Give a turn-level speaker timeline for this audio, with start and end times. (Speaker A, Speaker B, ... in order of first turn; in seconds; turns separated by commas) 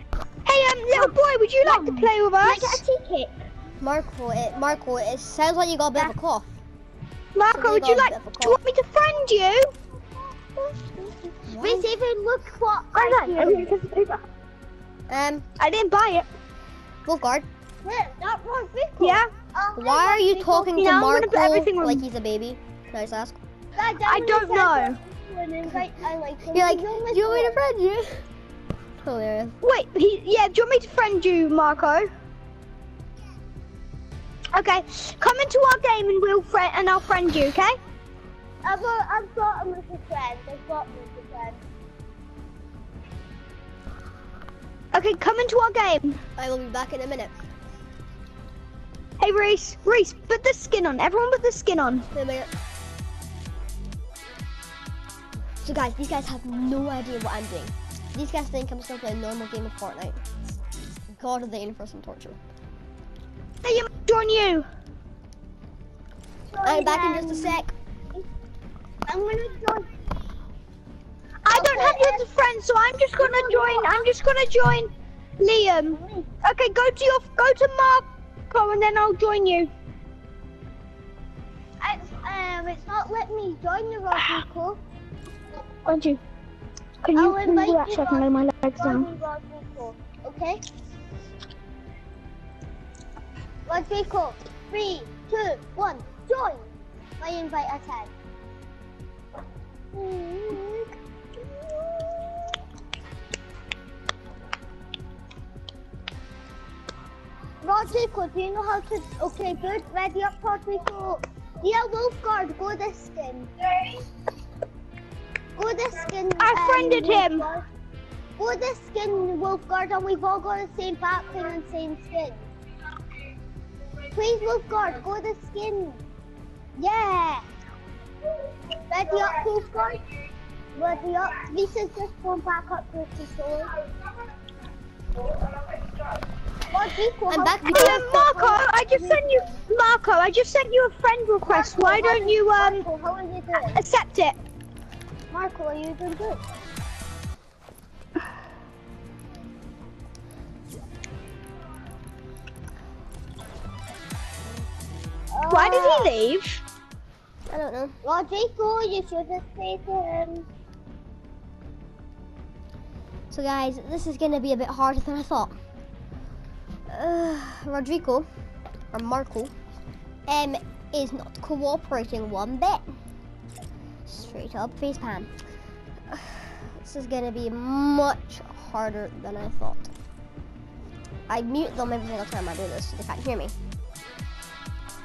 Speaker A: 0.5-2.8, Speaker B: 0.9-3.4, Speaker C: 3.8-6.5, Speaker A: 7.3-9.7, Speaker C: 7.5-8.6, Speaker B: 10.6-13.7, Speaker C: 11.5-11.9, Speaker A: 12.9-14.2, Speaker C: 15.1-15.4, Speaker A: 15.6-16.3, Speaker C: 17.1-17.5, Speaker B: 17.8-21.0, Speaker A: 19.0-19.3, Speaker C: 19.8-23.4, Speaker A: 20.8-22.0, Speaker B: 23.8-27.6, Speaker A: 24.1-25.0, Speaker C: 26.5-28.2, Speaker C: 29.0-29.6, Speaker A: 29.6-32.1, Speaker A: 34.5-37.8, Speaker B: 38.6-41.6, Speaker A: 44.9-46.2, Speaker C: 46.4-47.3, Speaker A: 49.2-52.0, Speaker C: 52.1-52.5, Speaker C: 55.6-60.2, Speaker C: 61.2-62.4, Speaker A: 63.6-64.7, Speaker B: 66.5-68.3, Speaker C: 66.6-67.7, Speaker B: 69.1-69.9, Speaker A: 71.4-79.7, Speaker B: 71.5-72.3, Speaker B: 73.2-74.1, Speaker B: 75.9-76.3, Speaker B: 81.8-84.8, Speaker A: 85.9-86.2, Speaker A: 87.0-89.1, Speaker B: 87.1-90.6, Speaker B: 93.7-96.7, Speaker B: 97.2-98.1, Speaker B: 99.9-100.9, Speaker B: 101.5-102.3, Speaker B: 107.6-113.5, Speaker B: 115.6-117.7, Speaker A: 116.4-117.5, Speaker B: 118.4-122.5, Speaker B: 124.1-126.0, Speaker B: 126.8-127.4, Speaker B: 128.9-130.0, Speaker B: 130.8-133.7, Speaker B: 136.7-139.5, Speaker C: 137.3-138.1, Speaker A: 137.7-142.9, Speaker B: 141.5-143.8, Speaker A: 143.6-144.4, Speaker B: 145.3-146.4, Speaker B: 155.3-156.1, Speaker A: 155.5-156.6, Speaker C: 157.5-158.0, Speaker B: 158.0-160.5, Speaker C: 163.3-165.6, Speaker C: 166.9-168.3, Speaker C: 168.9-169.5, Speaker C: 170.3-172.9, Speaker C: 174.1-175.3, Speaker C: 176.1-179.9, Speaker C: 181.3-183.5